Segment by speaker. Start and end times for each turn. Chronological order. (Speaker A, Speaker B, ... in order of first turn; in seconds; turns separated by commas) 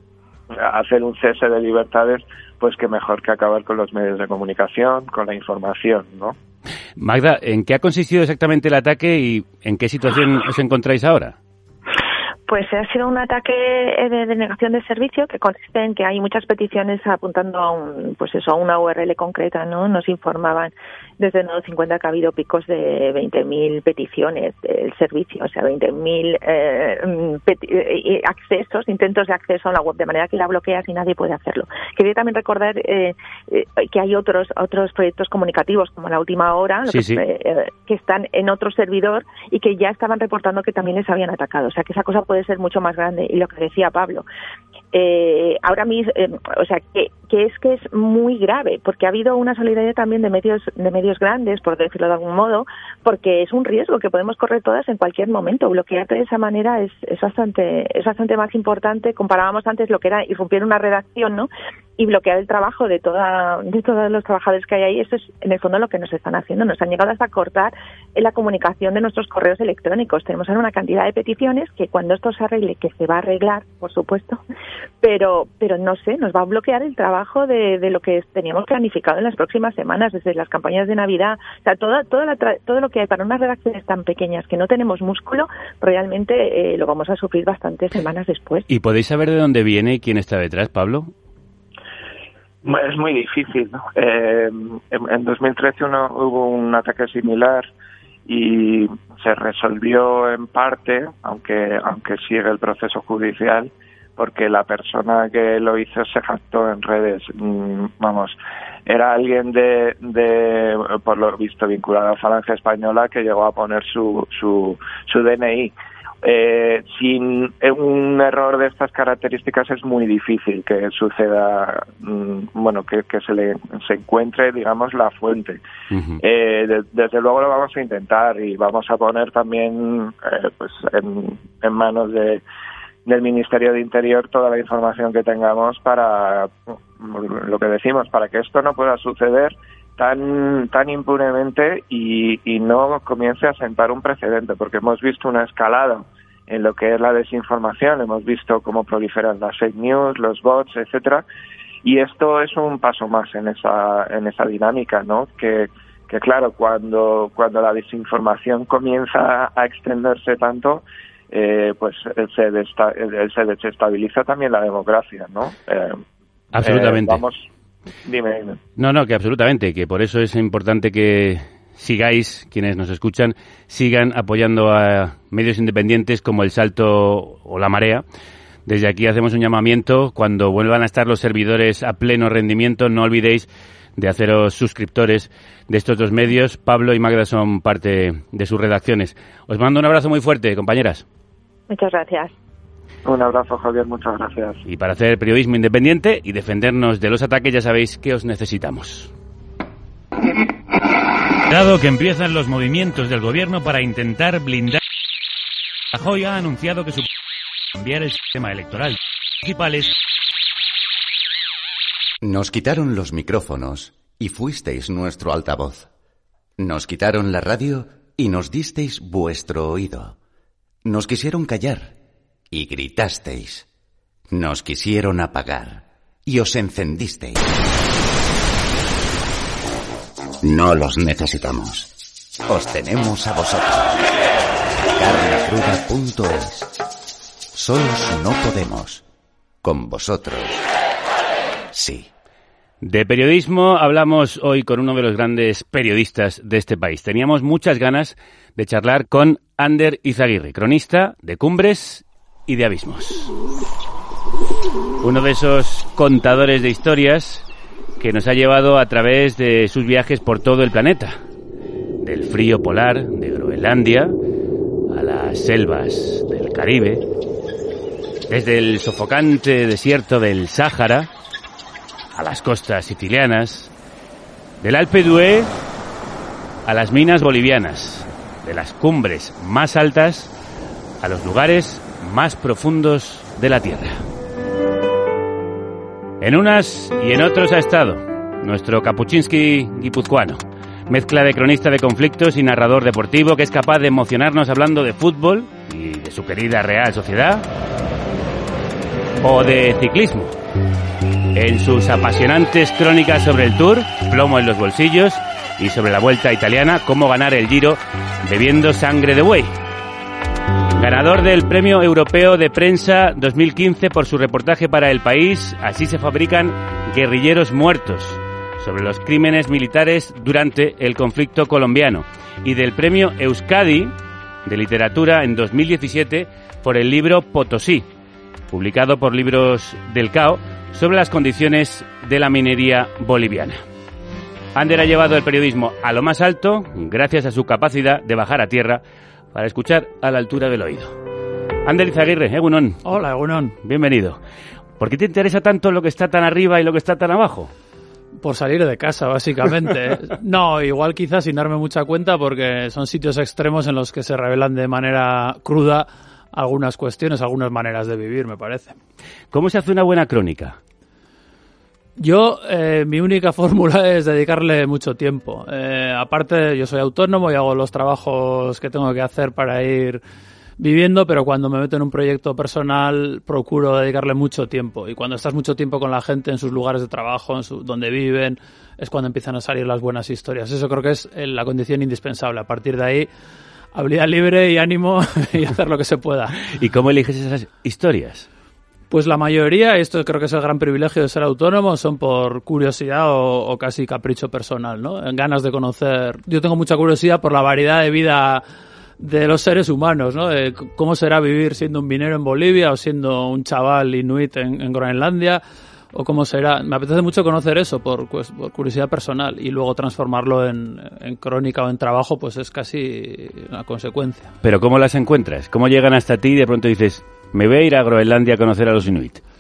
Speaker A: 0.5-6.3, Speaker B: 7.0-11.3, Speaker C: 12.5-44.2, Speaker B: 36.9-37.2, Speaker C: 44.9-74.4, Speaker C: 75.0-88.7, Speaker B: 88.7-91.1, Speaker A: 92.6-97.7, Speaker A: 98.3-108.3, Speaker A: 108.9-125.6, Speaker B: 125.9-126.2, Speaker A: 126.2-132.4, Speaker A: 133.1-151.2, Speaker A: 151.8-166.0, Speaker B: 166.5-167.2, Speaker A: 166.6-167.4, Speaker A: 168.0-168.6, Speaker B: 168.8-178.0, Speaker B: 178.7-191.0, Speaker C: 191.7-192.3, Speaker A: 193.0-194.6, Speaker B: 194.7-199.1, Speaker B: 201.5-204.8, Speaker B: 205.9-207.1, Speaker B: 207.8-209.9, Speaker D: 212.2-215.9, Speaker D: 216.6-220.2, Speaker D: 220.8-221.9, Speaker D: 222.5-223.7, Speaker D: 224.3-227.5, Speaker D: 230.4-231.9, Speaker D: 232.5-234.0, Speaker D: 234.7-236.7, Speaker D: 237.5-239.0, Speaker D: 239.6-240.7, Speaker D: 241.7-242.1, Speaker B: 242.8-253.3, Speaker B: 255.0-257.4, Speaker B: 258.0-261.2, Speaker B: 262.0-264.1, Speaker B: 264.9-267.0, Speaker B: 268.3-271.1, Speaker B: 272.1-273.7, Speaker B: 274.6-275.5, Speaker B: 276.6-280.3, Speaker B: 281.0-284.0, Speaker B: 286.2-297.5, Speaker B: 299.2-300.3, Speaker B: 301.3-309.5, Speaker B: 310.8-323.9, Speaker B: 324.4-327.9, Speaker B: 328.5-333.6, Speaker B: 334.5-338.8, Speaker B: 339.3-340.9, Speaker B: 341.6-342.8, Speaker E: 342.8-343.6, Speaker B: 343.6-344.2, Speaker B: 344.8-347.5, Speaker E: 348.2-358.8, Speaker B: 359.3-360.6, Speaker E: 362.0-370.0, Speaker E: 370.6-383.1, Speaker E: 383.7-386.4, Speaker B: 386.4-388.2, Speaker E: 388.9-398.4, Speaker E: 399.0-405.4, Speaker E: 405.9-414.3, Speaker B: 414.4-419.2